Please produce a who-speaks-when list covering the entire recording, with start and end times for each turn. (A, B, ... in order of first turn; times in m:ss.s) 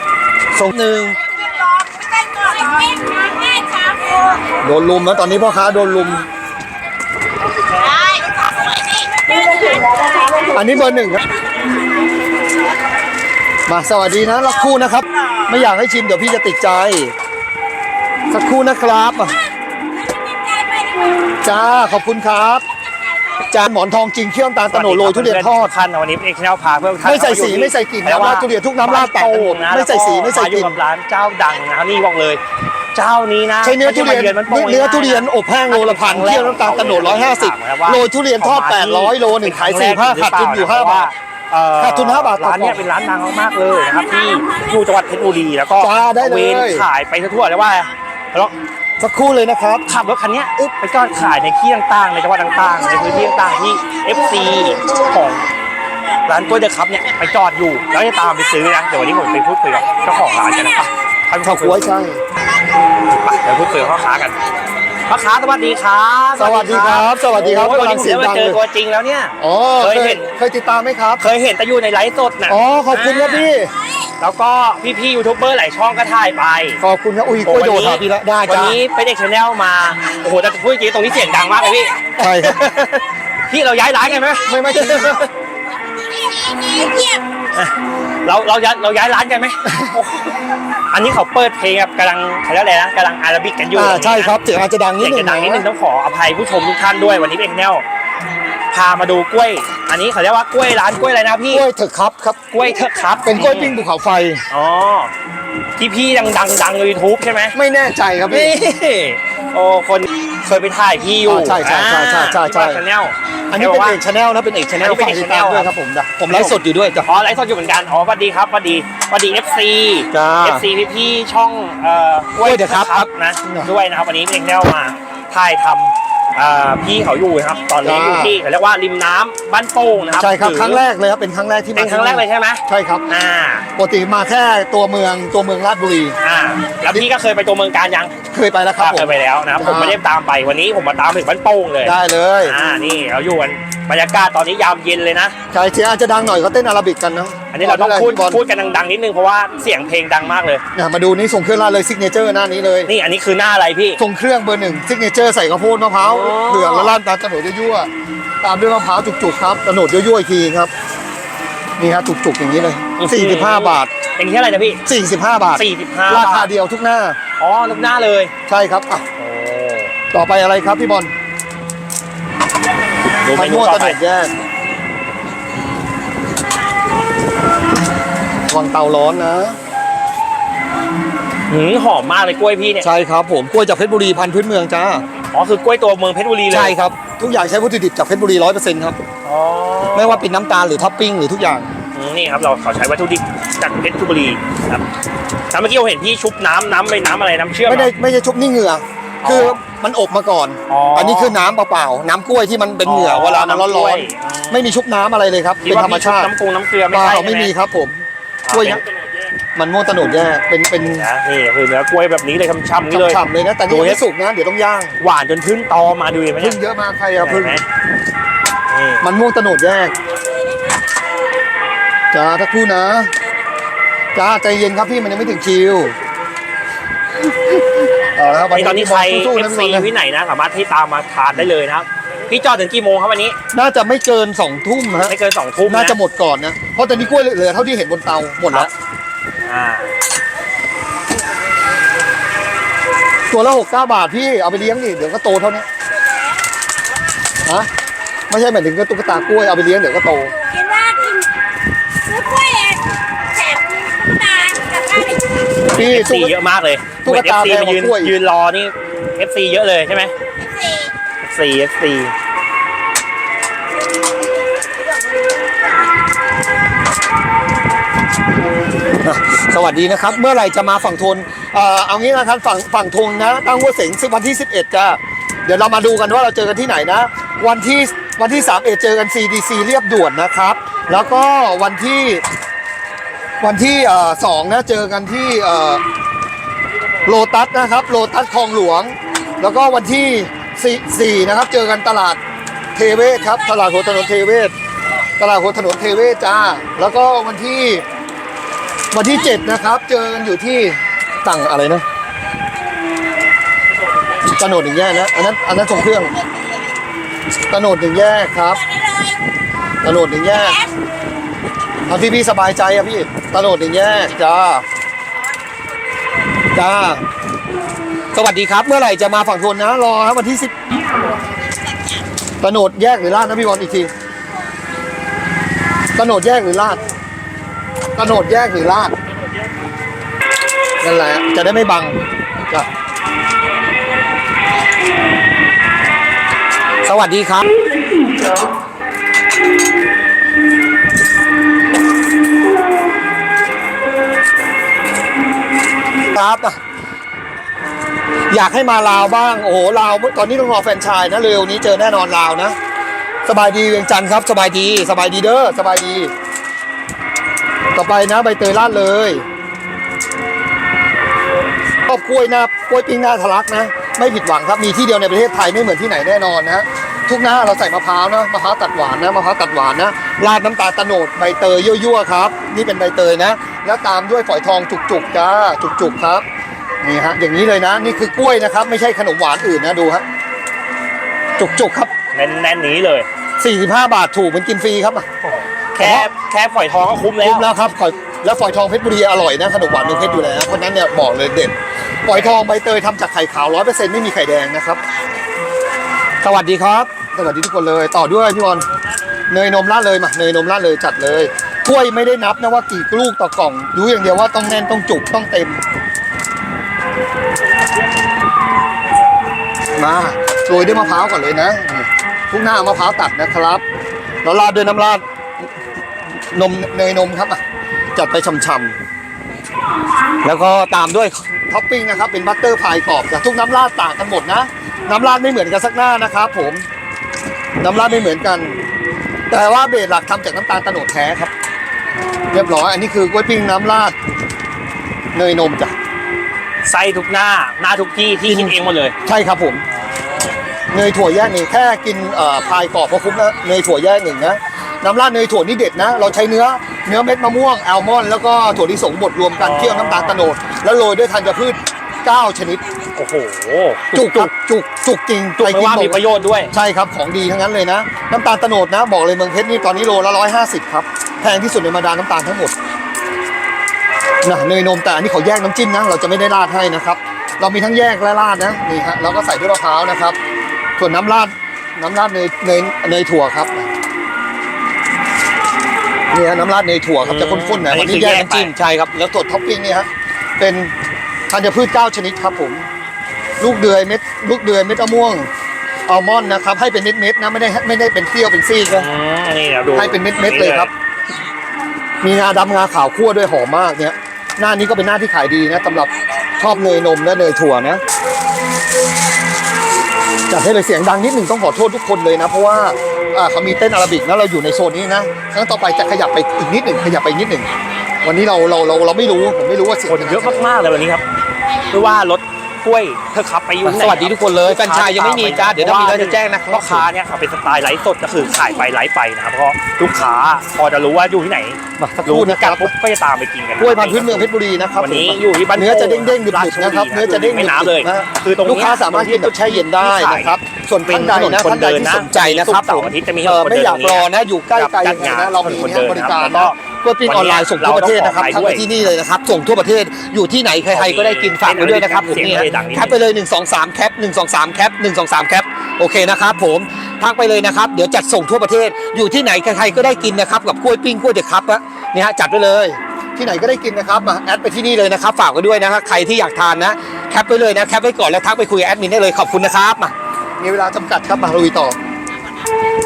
0:00.5-0:01.2 A
0:01.4-0:04.4 B
0:04.6-0:06.3 A
0:07.8-0:10.4 B
0:10.4-0:11.3 A
0:13.7-0:17.1 A
0:18.3-0:19.4 A
0:20.0-0:21.2 B
0:21.4-0:22.6 A
0:23.4-0:25.7 A
0:24.7-0:32.4 C
0:27.0-0:30.8 A
0:32.9-0:48.5 C
0:33.6-0:41.1 A
0:41.8-0:42.8 A
0:45.8-0:46.9 A
0:49.0-0:49.8 A
0:49.9-0:55.5 C
0:56.3-1:01.8 C
1:01.4-1:02.2 A
1:03.1-1:04.4 C
1:05.0-1:10.3 C
1:06.4-1:08.6 A
1:09.4-1:11.2 A
1:11.2-1:13.5 C
1:12.5-1:13.7 A
1:14.2-1:16.8 C
1:16.8-1:18.8 A
1:17.4-1:25.3 C
1:22.2-1:22.6 A
1:24.4-1:25.3 A
1:26.0-1:27.2 B
1:27.5-1:30.3 C
1:29.6-1:30.0 A
1:30.9-1:34.4 C
1:33.7-1:35.7 A
1:35.0-1:37.8 C
1:38.7-1:41.6 C
1:41.5-1:42.4 A
1:42.5-1:43.8 C
1:43.2-1:44.4 A
1:44.5-1:45.1 C
1:45.8-1:47.6 C
1:47.5-1:48.6 A
1:48.3-1:54.0 C
1:51.3-1:52.8 A
1:53.5-1:57.1 A
1:54.8-1:55.7 C
1:56.3-2:10.8 C
2:00.1-2:00.6 A
2:02.4-2:03.7 A
2:07.8-2:08.4 A
2:10.2-2:13.1 A
2:11.8-2:13.7 C
2:13.8-2:16.2 A
2:16.2-2:18.1 C
2:18.3-2:20.0 A
2:18.8-2:25.4 C
2:21.8-2:22.6 A
2:25.5-2:28.4 A
2:27.5-2:30.6 C
2:30.7-2:32.9 A
2:32.9-2:34.0 C
2:34.0-2:37.9 A
2:36.0-2:37.0 C
2:38.4-2:40.7 A
2:41.8-2:43.9 A
2:43.0-2:44.8 C
2:44.9-2:47.2 A
2:45.6-2:46.5 C
2:47.4-2:48.3 C
2:48.5-2:49.0 A
2:49.2-2:49.9 C
2:50.1-2:51.1 A
2:53.2-2:54.0 C
2:53.4-2:54.3 A
2:58.5-2:59.6 A
3:01.5-3:02.9 C
3:02.8-3:05.0 A
3:05.3-3:06.8 C
3:06.5-3:09.0 A
3:09.2-3:10.3 C
3:10.0-3:11.7 A
3:11.9-3:14.8 C
3:15.5-3:17.9 C
3:17.6-3:26.3 A
3:19.2-3:19.6 C
3:20.7-3:21.4 C
3:22.8-3:24.8 C
3:25.6-3:27.5 C
3:26.9-3:28.8 A
3:28.4-3:28.8 C
3:29.6-3:31.1 A
3:30.8-3:34.0 C
3:32.9-3:35.0 A
3:35.0-3:36.6 C
3:36.4-3:37.6 A
3:37.2-3:37.6 C
3:38.7-3:39.1 C
3:39.0-3:39.9 A
3:42.1-3:43.1 A
3:44.1-3:46.0 A
3:47.8-3:49.9 A
3:48.5-3:53.4 C
3:53.5-3:58.7 A
3:55.1-3:56.0 C
3:59.4-3:59.9 C
4:03.3-4:05.7 A
4:07.4-4:07.7 A
4:08.3-4:10.4 A
4:10.4-4:11.3 B
4:12.1-4:15.2 B
4:15.7-4:20.1 C
4:15.7-4:16.3 A
4:17.0-4:18.1 A
4:20.6-4:20.9 B
4:21.2-4:22.1 C
4:29.0-4:42.2 A
4:43.4-4:45.8 A
4:47.0-4:52.2 A
4:52.8-4:54.5 A
4:55.2-4:57.8 A
4:58.9-5:01.8 A
5:04.3-5:06.1 A
5:07.5-5:08.7 A
5:08.7-5:09.2 B
5:09.8-5:10.7 A
5:11.9-5:14.6 A
5:16.5-5:17.0 A
5:18.1-5:20.6 A
5:22.4-5:23.9 A
5:26.0-5:26.8 A
5:28.0-5:28.9 A
5:30.8-5:32.7 A
5:36.8-5:37.5 A
5:46.1-5:46.6 A
5:48.3-5:52.6 A
5:53.2-5:56.1 A
5:57.8-5:59.2 A
6:01.9-6:16.2 A
6:16.8-6:20.0 A
6:21.4-6:21.9 A
6:22.1-6:23.1 C
6:23.4-6:25.1 A
6:25.2-6:27.5 C
6:25.8-6:26.1 A
6:27.2-6:31.6 A
6:29.6-6:30.4 C
6:32.1-6:34.8 A
6:32.1-6:32.4 C
6:36.2-6:38.7 A
6:39.3-6:45.6 A
6:49.8-6:53.6 A
6:54.2-6:55.0 A
6:56.3-6:57.4 A
6:58.0-6:58.8 A
7:00.2-7:06.6 A
7:07.6-7:08.6 A
7:09.3-7:11.3 A
7:12.3-7:14.0 A
7:15.1-7:15.7 A
7:16.6-7:19.0 C
7:18.3-7:19.6 A
7:19.9-7:20.4 C
7:20.7-7:32.6 A
7:29.4-7:30.2 C
7:32.9-7:34.3 C
7:33.9-7:42.5 A
7:35.4-7:36.5 C
7:44.2-7:50.2 A
7:50.8-7:53.7 A
7:56.1-7:59.9 A
7:57.0-7:58.5 C
8:00.4-8:00.7 A
8:01.3-8:02.7 A
8:03.4-8:05.3 A
8:05.9-8:08.9 A
8:08.7-8:10.7 C
8:09.7-8:10.7 A
8:12.0-8:17.8 A
8:20.3-8:27.5 A
8:28.0-8:30.5 A
8:29.9-8:31.0 C
8:31.7-8:50.4 C
8:33.6-8:36.9 A
8:41.8-8:42.7 A
8:43.6-9:21.8 A
8:50.9-8:58.7 C
9:00.7-9:02.9 C